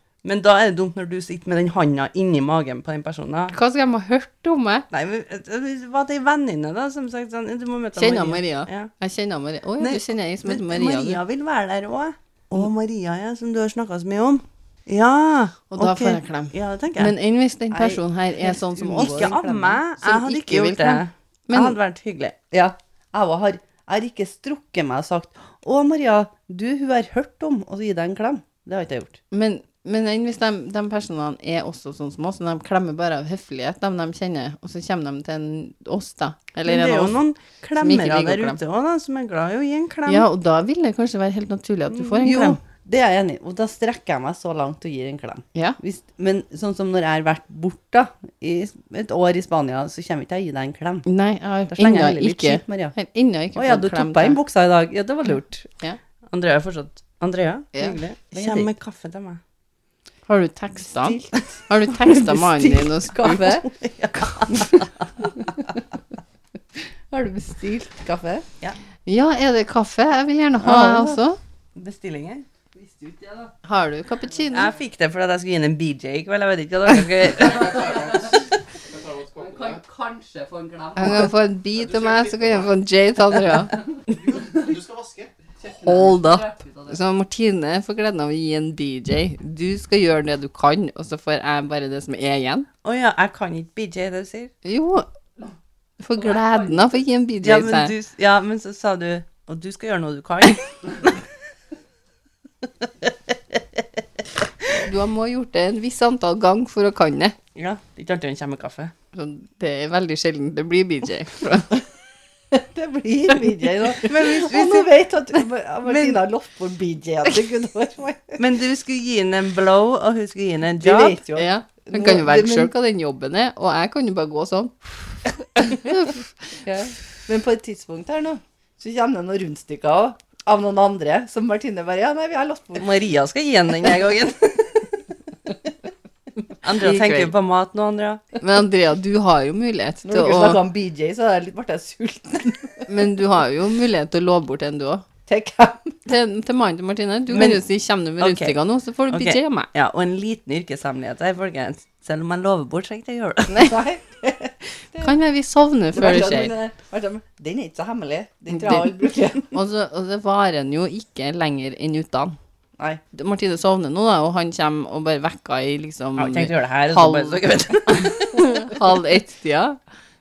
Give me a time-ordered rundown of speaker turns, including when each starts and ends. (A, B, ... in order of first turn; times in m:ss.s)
0:00.2-0:03.5 A
0:03.5-0:04.8 B
0:04.9-0:08.9 A
0:08.0-0:11.2 B
0:09.8-0:17.1 A
0:15.7-0:19.3 B
0:17.7-0:19.8 C
0:19.0-0:22.4 A
0:20.0-0:21.8 B
0:22.5-0:29.2 C
0:29.3-0:37.2 B
0:36.6-0:40.3 A
0:37.8-0:38.6 B
0:40.0-0:42.6 B
0:42.2-0:51.0 C
0:51.0-0:54.4 B
0:51.7-0:52.9 C
0:53.5-0:55.7 C
0:56.3-0:59.4 A
0:57.7-0:58.0 B
0:58.3-0:58.7 C
1:00.3-1:03.5 B
1:00.9-1:03.7 C
1:03.5-1:05.1 A
1:04.5-1:05.8 C
1:07.1-1:08.4 C
1:09.0-1:11.4 B
1:10.6-1:11.1 C
1:11.7-1:12.4 A
1:12.7-1:13.5 C
1:13.6-1:14.7 B
1:14.5-1:18.2 A
1:17.5-1:18.4 C
1:19.1-1:21.3 C
1:21.0-1:23.8 B
1:24.3-1:24.9 C
1:25.6-1:26.9 C
1:25.8-1:32.7 B
1:32.8-1:34.5 A
1:34.6-1:35.1 B
1:36.0-1:37.9 B
1:37.4-1:41.2 A
1:44.7-1:47.4 B
1:47.5-1:48.9 A
1:49.1-1:51.8 B
1:52.5-1:58.4 C
1:54.0-1:54.9 A
1:55.8-1:56.2 A
1:58.4-2:01.2 A
2:00.8-2:02.7 C
2:01.3-2:06.3 B
2:06.6-2:12.9 C
2:12.8-2:14.9 A
2:16.6-2:18.2 A
2:16.8-2:17.3 B
2:18.4-2:20.6 B
2:20.0-2:22.9 C
2:22.9-2:25.0 B
2:25.3-2:26.1 C
2:26.0-2:29.7 B
2:27.3-2:27.6 A
2:28.2-2:28.6 A
2:29.1-2:33.7 A
2:33.5-2:35.1 C
2:35.0-2:36.5 B
2:35.9-2:39.5 C
2:38.5-2:38.9 B
2:39.5-2:42.4 B
2:43.1-2:49.8 B
2:46.2-2:48.8 A